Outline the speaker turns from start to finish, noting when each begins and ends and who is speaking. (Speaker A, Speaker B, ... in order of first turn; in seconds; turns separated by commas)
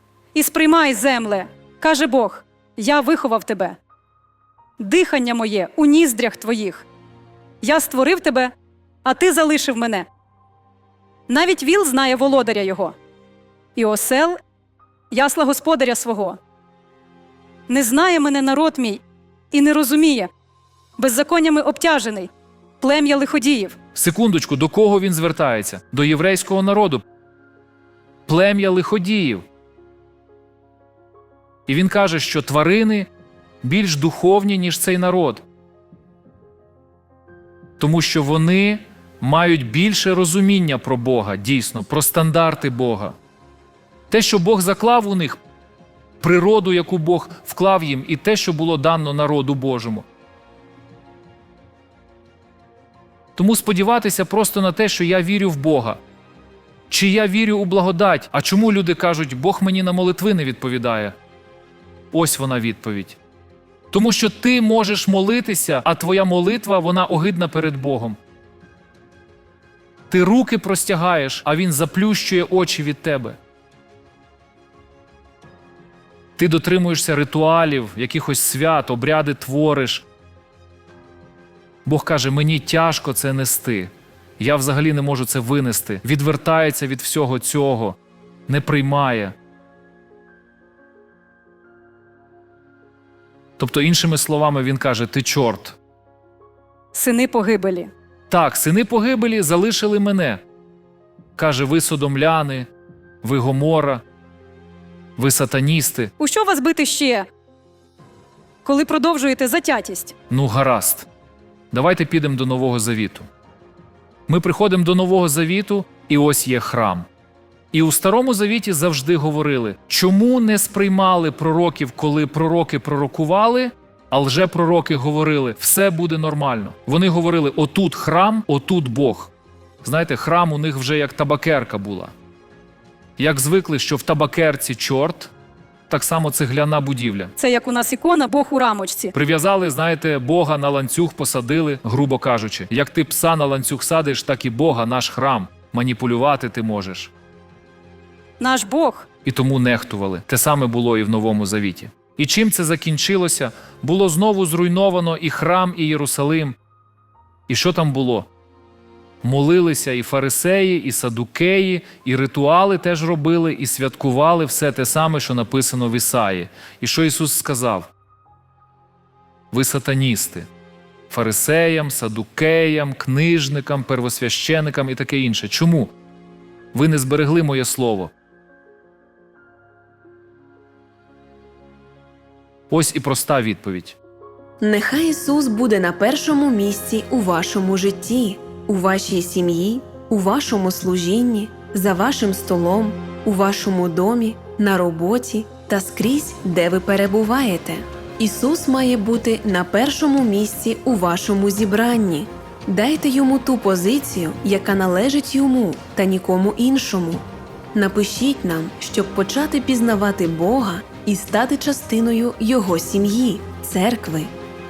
Speaker A: 0.3-3.8, Speaker A: 4.8-6.8, Speaker A: 7.6-8.5, Speaker A: 9.0-10.1, Speaker A: 11.3-13.0, Speaker A: 13.8-14.4, Speaker A: 15.1-16.4, Speaker A: 17.7-19.0, Speaker A: 19.5-20.3, Speaker A: 21.0-23.8, Speaker B: 23.9-27.0, Speaker B: 28.3-29.5, Speaker B: 31.7-33.1, Speaker B: 33.6-35.5, Speaker B: 37.8-43.2, Speaker B: 44.1-45.4, Speaker B: 46.2-50.1, Speaker B: 53.4-56.0, Speaker B: 56.9-61.2, Speaker B: 62.1-63.2, Speaker B: 63.9-68.2, Speaker B: 70.1-73.4, Speaker B: 76.4-80.1, Speaker B: 81.8-88.0, Speaker B: 88.5-89.4, Speaker B: 93.6-95.8, Speaker A: 96.9-97.9, Speaker B: 98.3-100.4, Speaker B: 101.4-102.7, Speaker B: 103.2-104.0, Speaker B: 105.2-106.1, Speaker A: 106.2-107.3, Speaker A: 108.7-110.1, Speaker B: 110.3-111.1, Speaker B: 111.7-113.3, Speaker B: 114.3-117.1, Speaker B: 117.7-129.3, Speaker B: 129.8-132.1, Speaker B: 133.2-135.3, Speaker B: 135.9-137.3, Speaker A: 137.4-139.1, Speaker B: 139.1-147.1, Speaker A: 148.4-149.1, Speaker B: 149.2-156.6, Speaker B: 157.5-158.3, Speaker B: 159.2-167.9, Speaker B: 169.5-170.5, Speaker B: 171.1-175.9, Speaker B: 176.7-178.1, Speaker B: 182.7-184.0, Speaker C: 184.6-214.3